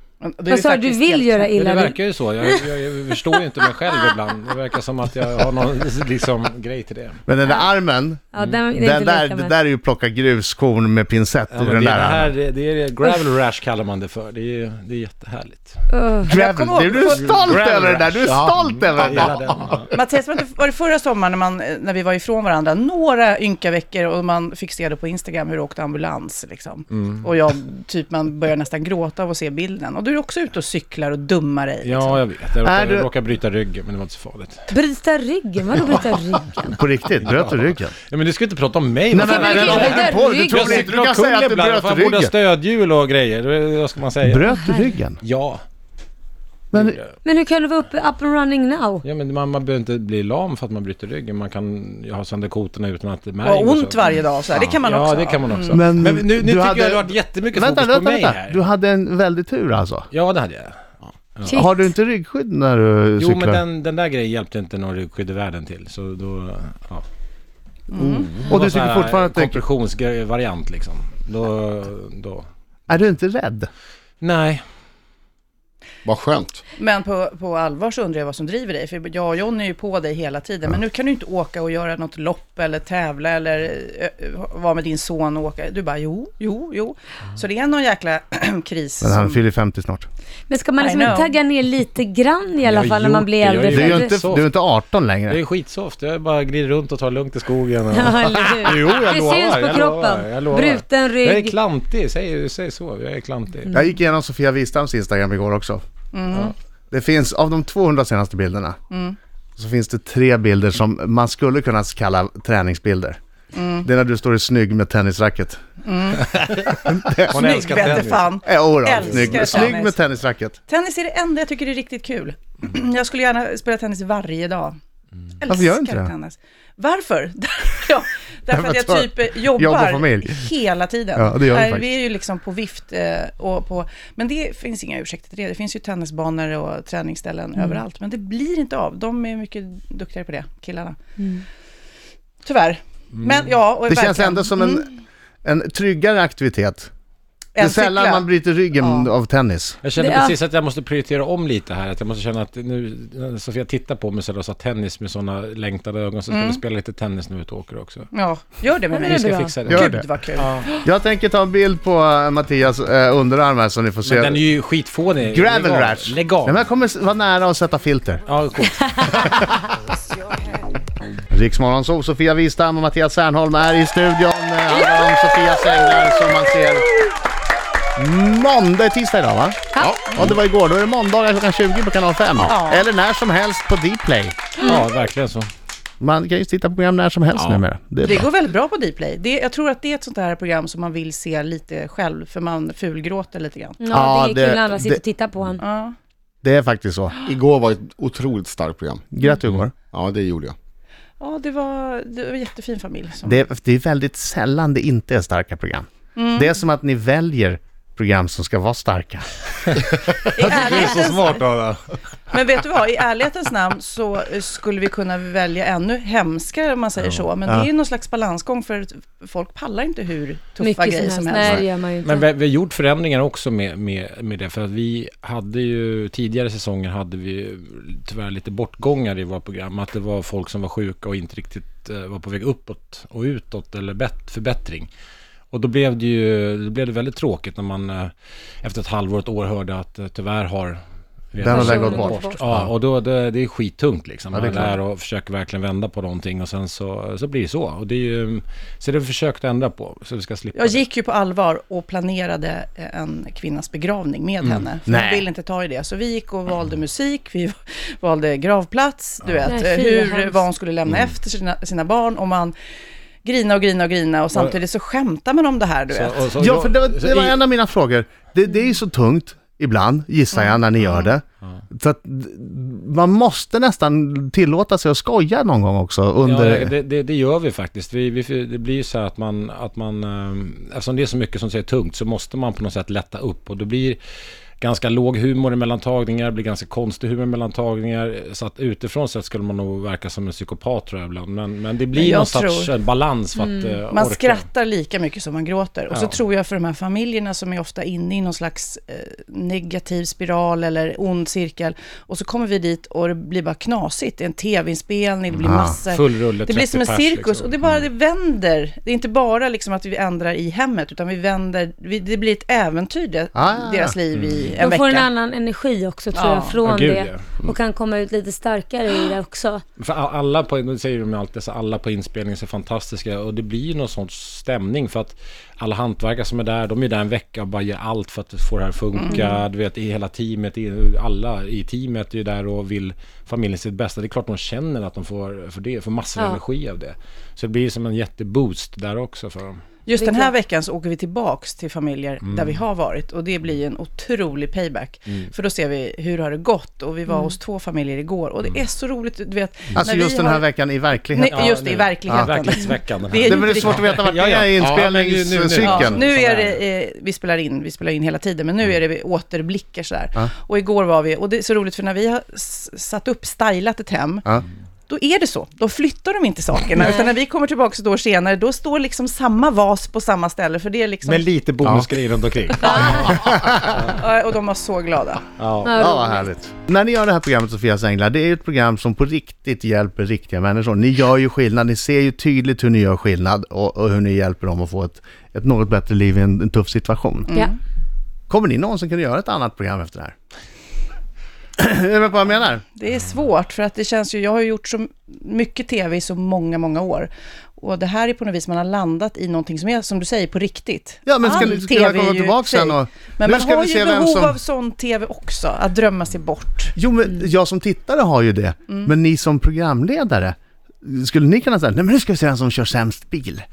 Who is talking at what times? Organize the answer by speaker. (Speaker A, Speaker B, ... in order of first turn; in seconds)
Speaker A: 0.2-1.6, 16.2-17.4, 19.9-32.2, 53.4-55.8, 67.9-68.4, 76.8-89.4, 90.8-91.3, 106.1-106.5, 108.9-109.2, 113.5-113.9, 115.8-116.8, 117.3-120.0, 120.7-124.8, 125.4-141.0, 142.4-144.8, 147.5-148.3, 148.8-149.1, 156.3-156.6, 158.1-160.8, 182.5-182.8, 188.0-193.8, 195.6-195.9, 201.2-203.4, 206.2-206.5, 210.3-211.4, 212.3-221.7, 250.5-262.5, 263.2-266.4, 270.3-271.1, 291.9-292.7, 293.9-315.1, 316.1-316.6, 339.9-350.5, 351.1-353.9, 355.6-364.2, 364.9-371.3, 372.6-373.1, 373.8-375.2, 392.8-406.7
Speaker B: 0.5-2.7, 8.3-9.5, 15.9-16.3, 34.7-36.8, 39.1-40.9, 44.5-45.0, 47.2-49.0, 61.5-61.7, 90.5-94.1, 97.9-101.5, 141.2-141.4, 150.0-150.3, 158.9-159.5, 169.0-169.4, 184.6-184.9, 193.8-195.6, 220.6-222.3, 241.4-242.4, 259.4-260.4, 314.6-319.6, 329.1-329.4, 340.0-340.3, 347.1-347.4, 366.8-367.1, 372.6-373.2, 375.6-376.2
Speaker C: 1.5-7.2, 11.5-15.8, 17.1-19.9, 26.9-27.3, 31.8-34.6, 37.2-44.5, 45.2-45.6, 46.7-47.1, 49.0-54.2, 54.8-58.6, 60.1-60.8, 63.2-67.0, 68.0-72.5, 74.2-74.6, 92.6-94.5, 95.3-103.7, 117.3-118.4, 119.0-119.8, 149.8-158.1, 159.1-160.7, 164.0-166.7, 168.3-169.3, 184.6-185.5, 209.7-211.8, 222.0-234.9, 235.5-238.1, 238.6-240.8, 241.3-250.8, 265.9-267.4, 276.2-284.0, 284.6-294.5, 305.8-307.9, 314.1-314.5, 316.6-317.5, 319.8-339.6, 342.2-342.6, 351.3-356.6, 371.0-373.9, 375.4-375.9
Speaker D: 7.3-12.3, 16.3-19.5, 32.6-33.1, 36.7-37.9, 39.1-42.3, 44.2-45.2, 46.7-47.0, 55.7-60.1, 61.5-63.6, 68.5-69.6, 72.9-73.7, 89.0-90.1, 93.7-95.4, 103.7-105.8, 106.9-108.8, 109.6-113.2, 113.8-115.6, 116.8-117.6, 118.4-120.6, 125.5-126.1, 128.5-130.4, 131.2-131.9, 143.9-144.9, 145.4-146.9, 147.6-149.8, 159.7-160.1, 160.8-164.4, 165.3-168.2, 171.3-176.8, 178.0-184.6, 186.0-188.3, 193.9-195.0, 196.4-197.2, 199.1-199.7, 203.2-209.3, 241.4-242.7, 244.3-244.7, 254.9-255.2, 266.4-276.7, 305.4-305.8, 313.4-314.0, 349.8-351.5, 352.1-352.3, 353.2-356.0, 373.0-373.6, 375.8-387.3, 388.3-390.1, 391.6-392.6, 401.1-404.4, 406.8-413.4
Speaker E: 19.0-19.8, 76.0-76.6, 197.2-199.0, 199.9-200.5